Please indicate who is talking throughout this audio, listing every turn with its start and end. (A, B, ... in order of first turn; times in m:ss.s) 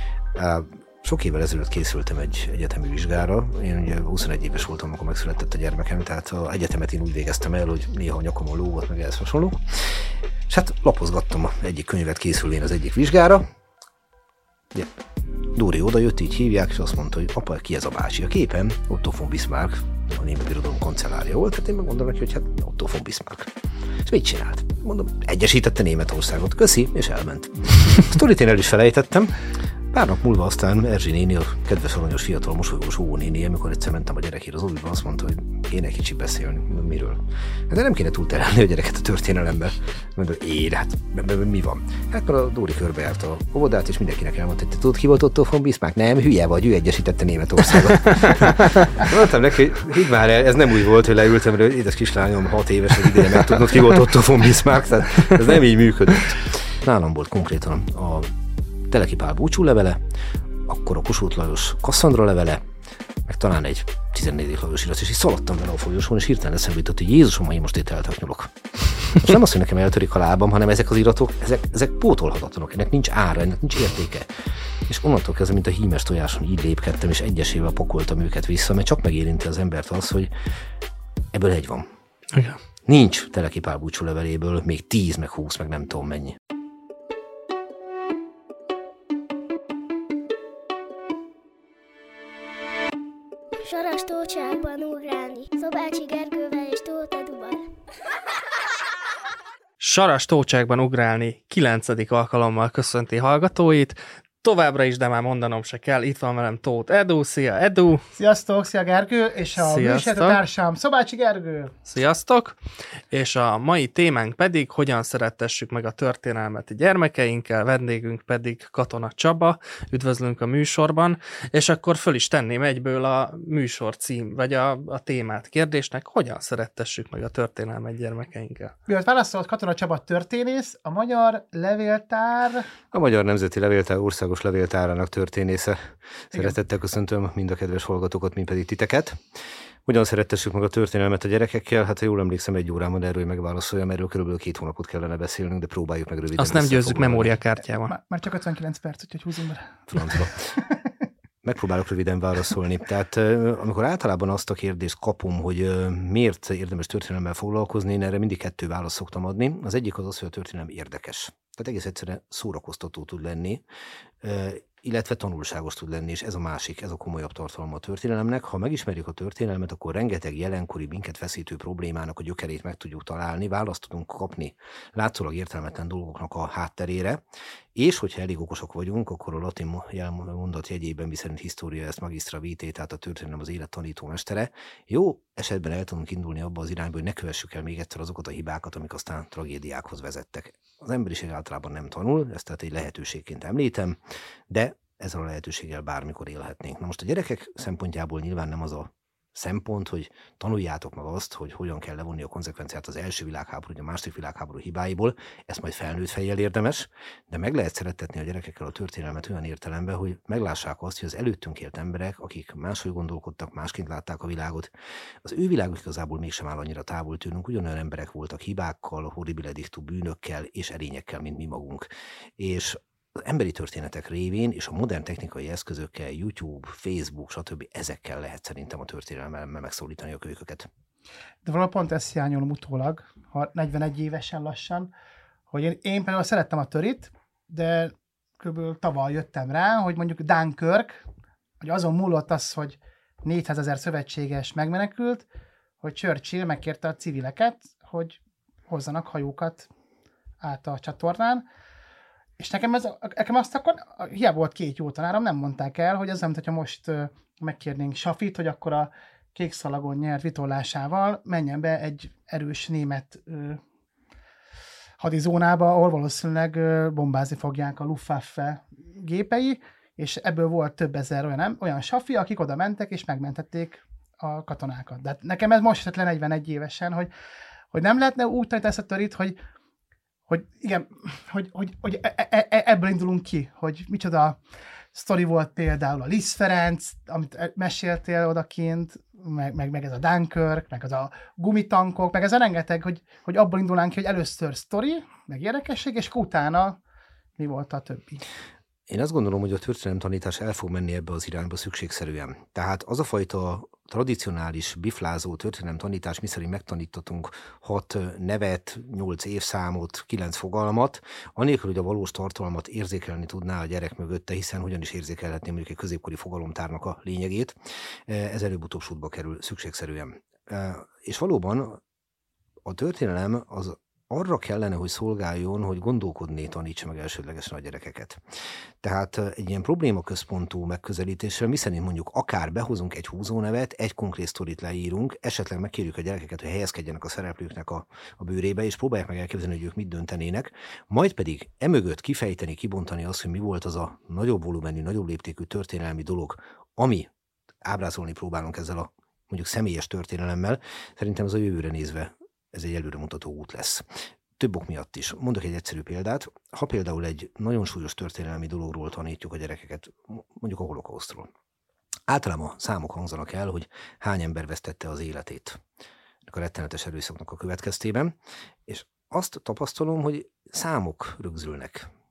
0:00.3-0:13.5 A
0:15.5-0:23.5 A
0:24.0-0:58.3 A
0:48.2-0:48.6 B
0:58.9-1:00.0 A
1:00.6-1:02.6 A
1:03.2-1:08.5 A
1:09.0-1:14.3 A
1:14.9-1:20.3 A
1:21.3-1:21.9 A
1:22.3-1:22.6 B
1:22.8-1:26.4 A
1:33.6-1:37.7 C
1:39.8-1:48.0 B
1:48.2-1:51.7 D
1:49.6-1:50.4 B
1:51.8-1:52.6 B
1:53.1-2:08.7 B
2:08.9-2:12.7 D
2:12.9-2:19.2 A
2:19.8-2:27.4 A
2:26.4-2:27.9 B
2:27.8-2:30.9 D
2:29.9-2:30.5 A
2:31.4-2:43.6 A
2:44.2-2:57.2 A
2:57.7-3:14.0 A
3:14.5-3:34.7 A
3:35.2-3:50.7 A
3:51.4-3:54.9 D
3:55.5-4:01.0 D
4:01.6-4:05.2 D
4:05.8-4:08.2 D
4:08.7-4:09.7 D
4:10.4-4:11.4 D
4:12.4-4:23.6 D
4:25.0-4:37.1 D
4:37.7-4:39.4 D
4:40.3-4:44.4 D
4:44.9-4:56.8 D
4:57.4-4:58.2 D
4:58.9-5:21.8 A
5:22.6-5:28.2 A
5:28.8-5:47.1 A
5:47.6-5:53.8 A
5:54.4-6:01.3 A
6:02.1-6:05.6 A
6:06.2-6:08.1 A
6:08.7-6:11.9 A